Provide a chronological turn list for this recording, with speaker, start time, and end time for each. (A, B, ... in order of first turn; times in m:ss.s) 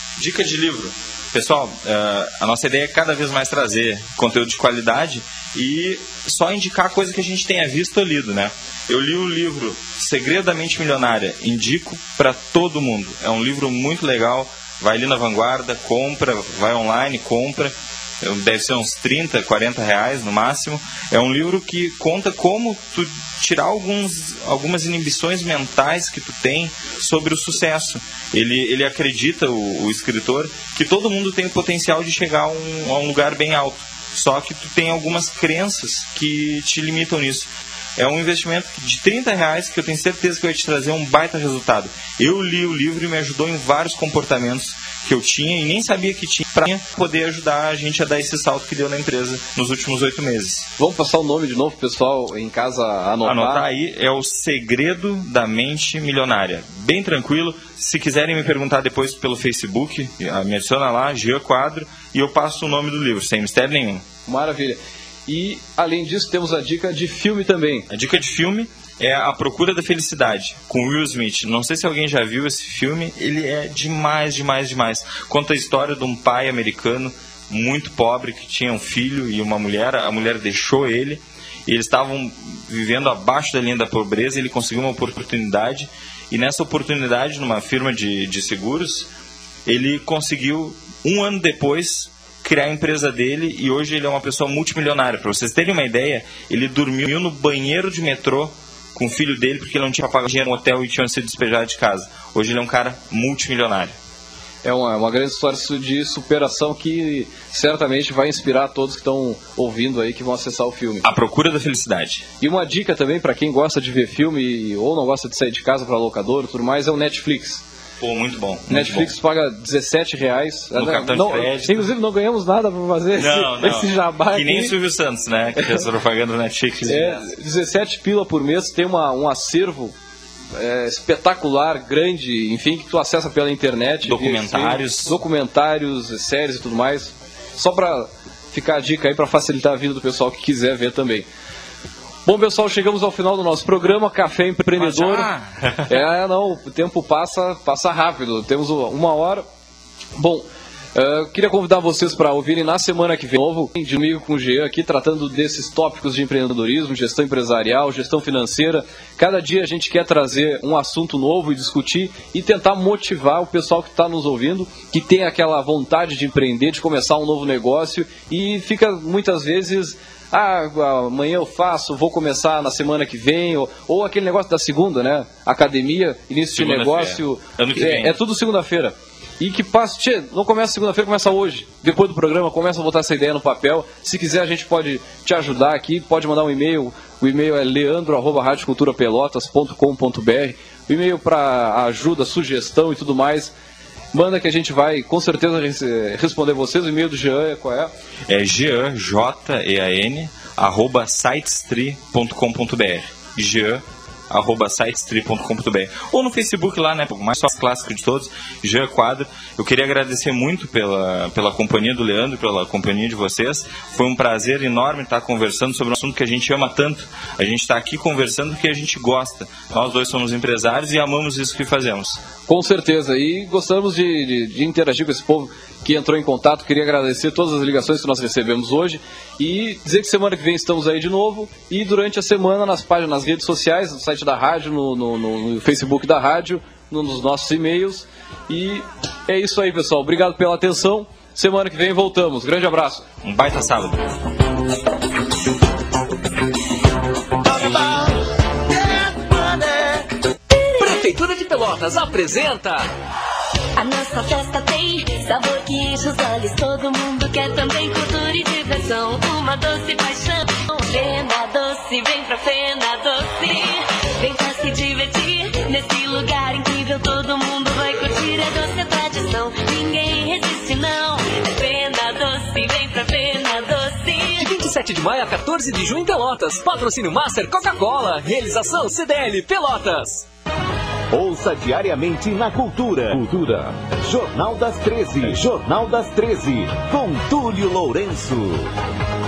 0:00.2-0:50.7 A
0:50.8-0:53.6 B
0:53.2-1:04.0 A
1:04.3-1:07.9 B
1:07.9-1:29.1 A
1:29.7-1:44.0 A
1:44.6-1:51.0 B
1:51.0-1:52.2 A
1:52.4-1:57.6 B
1:58.0-1:59.1 A
1:58.7-2:04.8 B
2:00.8-2:01.9 A
2:03.2-2:07.3 A
2:05.6-2:05.8 B
2:06.8-2:09.9 B
2:10.5-2:21.3 B
2:14.0-2:15.2 A
2:22.2-2:25.3 B
2:24.8-2:25.9 A
2:25.9-2:29.4 B
2:30.2-3:13.5 B
2:56.5-2:58.2 A
3:14.1-3:17.9 B
3:18.3-3:42.2 A
3:42.5-4:03.0 B
4:03.2-4:04.1 A
4:07.4-4:08.1 C
4:08.7-4:10.0 C
4:10.8-4:12.9 D
4:13.8-4:34.5 E
4:34.4-4:40.3 D
4:41.1-4:48.7 C